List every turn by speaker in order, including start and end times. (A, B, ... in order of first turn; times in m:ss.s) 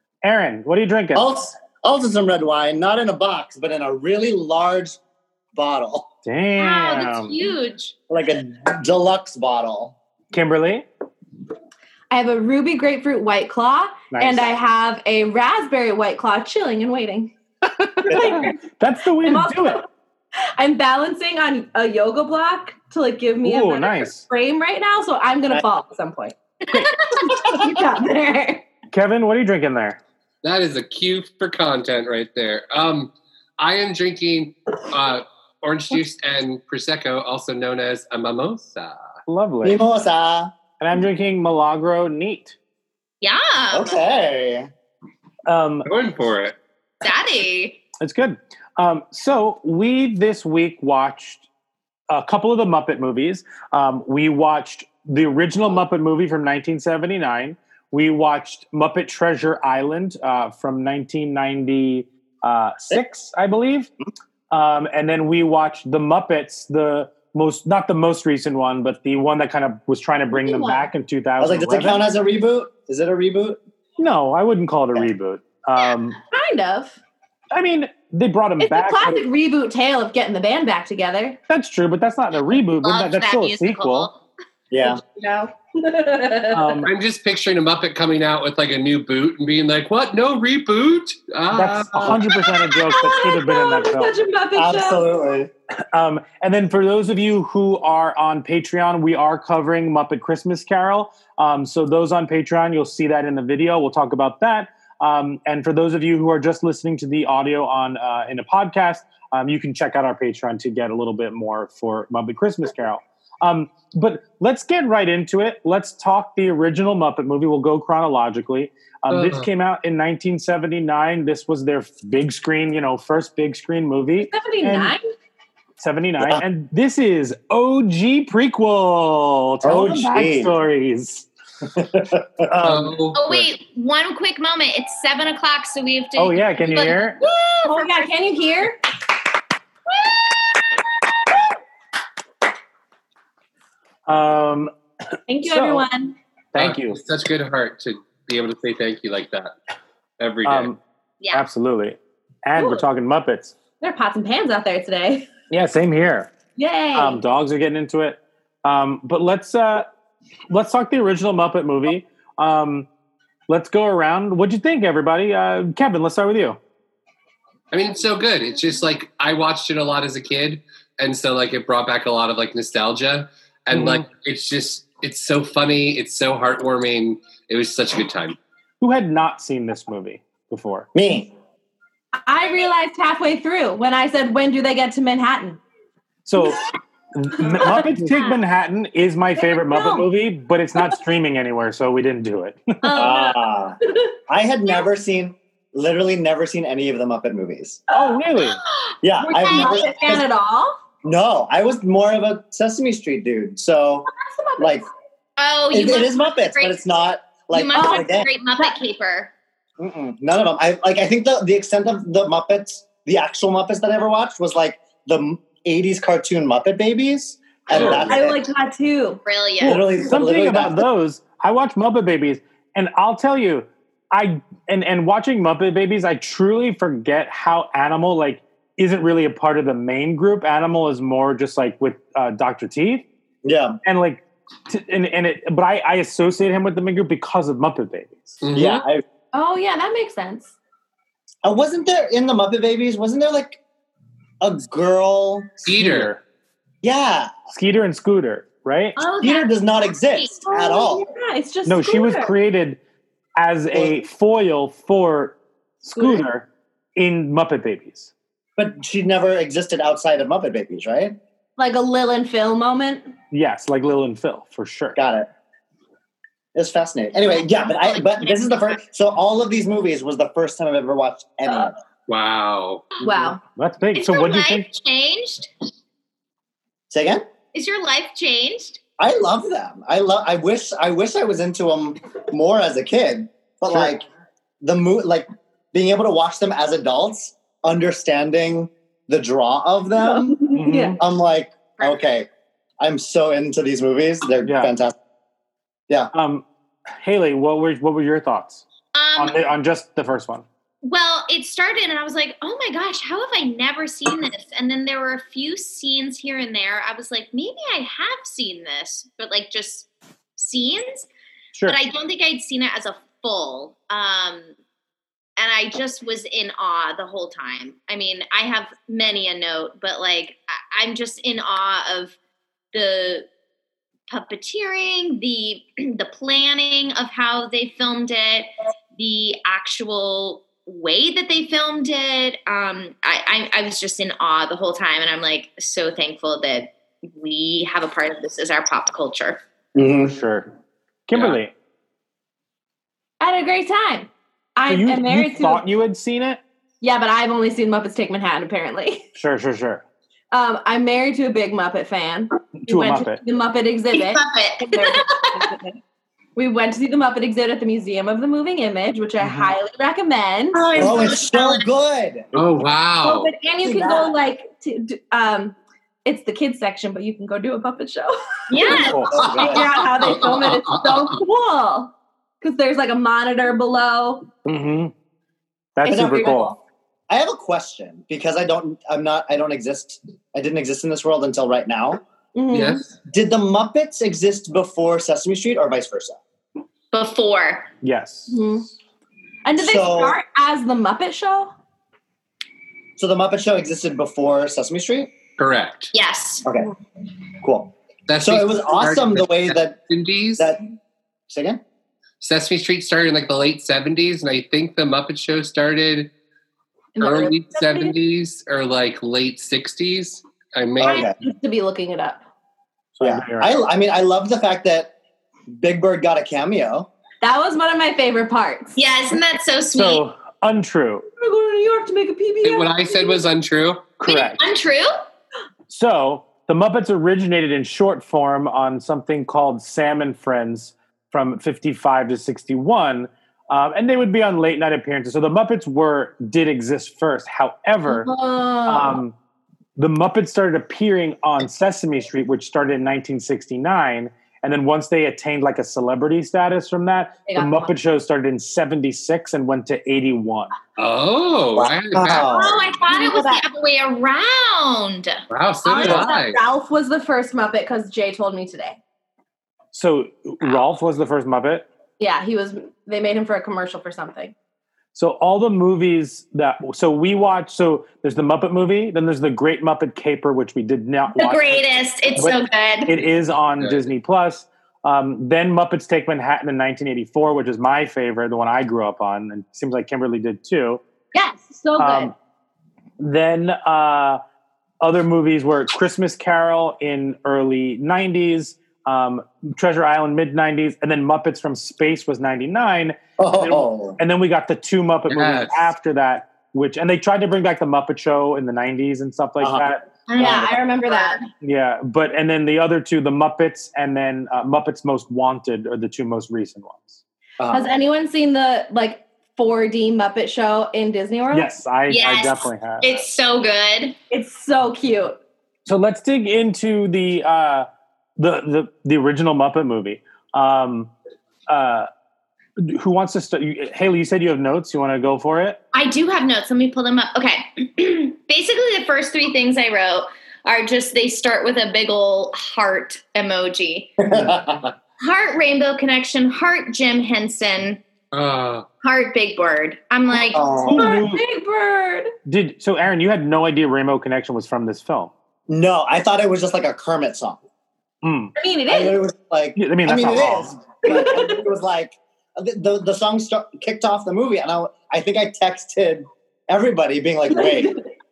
0:00.2-0:01.5 A
0:01.2-0:05.0 B
0:05.5-0:06.1 B
0:06.2-0:07.4 A
0:06.6-0:08.0 C
0:08.1-0:10.0 B
0:10.3-0:10.9 A
0:12.1-0:17.3 D
0:14.1-0:14.5 A
0:17.6-0:19.8 A
0:18.1-0:18.5 B
0:18.1-0:18.6 D
0:19.2-0:19.9 D
0:20.6-0:28.7 D
0:23.4-0:24.2 A
0:28.9-0:30.0 A
0:30.4-0:39.1 E
0:39.3-0:39.8 A
0:39.6-0:40.5 B
0:40.8-0:42.6 A
0:43.2-0:44.0 C
0:43.7-0:44.7 B
0:45.5-0:45.9 A
0:45.8-0:46.6 E
0:47.0-0:47.8 C
0:48.0-0:51.4 A
0:52.1-1:03.9 A
1:04.5-1:12.1 A
1:10.3-1:10.9 D
1:11.4-1:13.6 B
1:14.0-1:16.2 A
1:16.3-1:17.0 D
1:17.5-1:19.2 A
1:18.6-1:21.4 D
1:21.5-1:24.1 A
1:22.8-1:24.2 C
1:24.7-1:25.0 B
1:24.8-1:26.8 D
1:26.5-1:26.9 A
1:26.8-1:32.2 E
1:31.5-1:34.2 A
1:32.7-1:35.0 D
1:34.6-1:35.5 B
1:35.9-2:05.0 A
1:59.1-1:59.5 E
2:04.2-2:05.0 D
2:05.8-2:11.3 A
2:09.6-2:10.5 B
2:11.8-2:12.2 B
2:12.4-2:13.0 A
2:12.6-2:13.5 E
2:13.1-2:18.1 C
2:16.2-2:17.2 A
2:17.6-2:18.8 D
2:24.1-2:24.7 A
2:25.3-2:26.2 D
2:25.4-2:25.9 A
2:26.5-2:27.0 A
2:26.6-2:29.6 E
2:30.2-2:30.7 E
2:30.4-2:30.8 A
2:31.2-2:31.5 C
2:31.3-2:33.5 A
2:32.6-2:32.8 D
2:33.8-2:35.3 D
2:35.5-2:36.3 A
2:36.6-2:37.2 D
2:36.9-2:39.9 A
2:40.5-2:42.9 A
2:43.5-2:46.6 A
2:47.7-2:58.4 E
2:53.7-2:54.0 A
2:58.8-3:00.9 A
3:01.0-3:01.3 B
3:02.2-3:05.6 D
3:06.3-3:06.6 A
3:07.1-3:13.1 A
3:07.4-3:07.8 D
3:09.4-3:10.1 D
3:12.8-3:14.1 D
3:13.0-3:17.8 B
3:17.9-3:18.2 D
3:17.9-3:18.6 A
3:18.4-3:19.9 C
3:19.0-3:20.3 B
3:19.2-3:20.8 D
3:21.0-3:24.9 B
3:24.1-3:24.9 D
3:25.4-3:26.8 C
3:25.7-3:28.3 B
3:27.5-3:29.3 C
3:27.7-3:28.8 D
3:29.8-3:38.4 B
3:37.7-3:38.1 E
3:37.7-3:38.1 A
3:38.1-3:39.2 D
3:39.2-3:39.8 C
3:39.6-3:53.0 A
3:39.6-3:40.9 B
3:53.4-3:53.8 B
3:53.8-3:58.4 A
3:58.4-3:58.9 E
3:58.6-3:59.0 B
3:59.3-4:00.5 D
4:01.4-4:03.6 B
4:04.4-4:05.5 B
4:05.6-4:06.2 A
4:05.6-4:06.1 E
4:06.8-4:07.3 B
4:07.5-4:09.0 A
4:09.0-4:10.4 C
4:09.0-4:09.2 D
4:09.2-4:11.0 B
4:10.5-4:12.3 D
4:11.7-4:12.8 A
4:13.4-4:18.1 A
4:15.9-4:16.2 D
4:18.6-4:21.2 B
4:21.6-4:23.1 D
4:23.3-4:25.0 A
4:25.0-4:25.3 B
4:26.6-4:31.8 B
4:32.1-4:32.9 E
4:33.0-4:33.4 D
4:33.6-4:34.7 A
4:33.9-4:35.5 C
4:36.9-4:37.3 B
4:37.5-4:38.8 C
4:39.0-4:44.1 B
4:44.6-4:52.3 B
4:50.0-4:51.0 D
4:50.6-4:51.0 A
4:52.8-4:55.0 B
4:54.4-4:54.7 A
4:56.1-4:56.4 A
4:57.0-4:58.6 A
4:58.9-4:59.4 C
4:59.2-5:00.4 A
5:00.8-5:11.1 C
5:11.6-5:14.5 C
5:15.4-5:22.2 C
5:22.7-5:23.3 C
5:24.1-5:39.4 C
5:39.8-5:40.2 B
5:40.1-5:40.5 A
5:41.1-5:41.5 A
5:41.1-5:41.4 E
5:43.2-5:45.6 D
5:44.7-5:46.4 A
5:46.8-5:49.1 D
5:49.2-5:49.8 A
5:50.3-5:55.8 D
5:52.6-5:53.2 A
5:53.9-5:55.5 C
5:56.4-6:00.6 D
5:59.2-5:59.6 A
6:00.5-6:01.6 C
6:00.8-6:02.3 B
6:02.3-6:03.3 E
6:03.0-6:14.3 D
6:03.6-6:04.1 B
6:08.5-6:09.5 C
6:08.6-6:09.6 A
6:09.1-6:09.6 B
6:09.8-6:11.1 E
6:14.4-6:14.9 A
6:15.8-6:16.6 A
6:15.8-6:16.5 B
6:15.8-6:16.6 D
6:17.1-6:22.0 B
6:22.4-6:22.8 D
6:22.5-6:22.9 E
6:23.1-6:26.2 B
6:26.9-6:27.7 C
6:27.8-6:28.4 A
6:28.3-6:28.7 D
6:29.4-6:31.5 D
6:29.6-6:30.2 B
6:33.0-6:35.1 B
6:35.4-6:35.9 E
6:35.9-6:36.4 C
6:36.5-6:36.7 B
6:37.4-6:39.8 B
6:38.1-6:40.5 E
6:40.4-6:40.6 B
6:41.3-6:41.6 B
6:42.2-6:46.1 E
6:47.0-6:48.0 D
6:47.0-6:51.1 E
6:50.8-6:51.2 B
6:50.8-6:52.2 D
6:53.0-6:53.5 A
6:53.0-6:54.9 B
6:55.6-6:56.9 B
6:57.2-6:58.8 D
6:58.8-7:00.0 C
6:59.7-7:01.1 A
7:01.2-7:03.2 D
7:02.4-7:03.9 E
7:04.0-7:04.4 A
7:04.0-7:05.0 C
7:05.7-7:18.1 A
7:17.9-7:19.0 D
7:18.7-7:19.2 A
7:19.8-7:30.5 A
7:27.3-7:27.7 D
7:30.8-7:32.4 E
7:31.6-7:32.6 B
7:32.3-7:35.2 C
7:32.3-7:33.5 D
7:35.3-7:36.4 E
7:35.6-7:38.8 D
7:39.7-7:41.7 A
7:42.0-7:44.3 D
7:44.9-8:00.8 A
7:51.2-7:53.0 C
7:53.6-7:53.9 E
8:01.1-8:02.1 D
8:01.8-8:02.1 A
8:03.0-8:04.2 A
8:04.8-8:20.5 A
8:13.2-8:14.0 B
8:15.1-8:15.7 E
8:19.4-8:19.6 B
8:20.1-8:21.3 C
8:20.2-8:21.2 D
8:21.4-8:27.0 A
8:27.4-8:27.7 B
8:27.5-8:31.5 D
8:31.3-8:33.0 A
8:31.9-8:34.0 C
8:34.1-8:35.2 D
8:35.7-8:40.9 A
8:41.5-8:41.9 A
8:42.6-8:45.6 A
8:45.7-8:54.0 C
8:54.0-8:54.7 B
8:55.0-8:57.8 C
8:58.1-8:58.7 E
8:58.8-9:00.5 C
9:00.3-9:00.9 B
9:00.6-9:01.2 A
9:00.8-9:02.1 D
9:02.3-9:05.1 A
9:05.5-9:07.4 B
9:08.0-9:08.3 A
9:08.4-9:09.0 D
9:08.7-9:17.8 B
9:09.6-9:10.5 A
9:10.8-9:11.4 D
9:17.3-9:17.7 D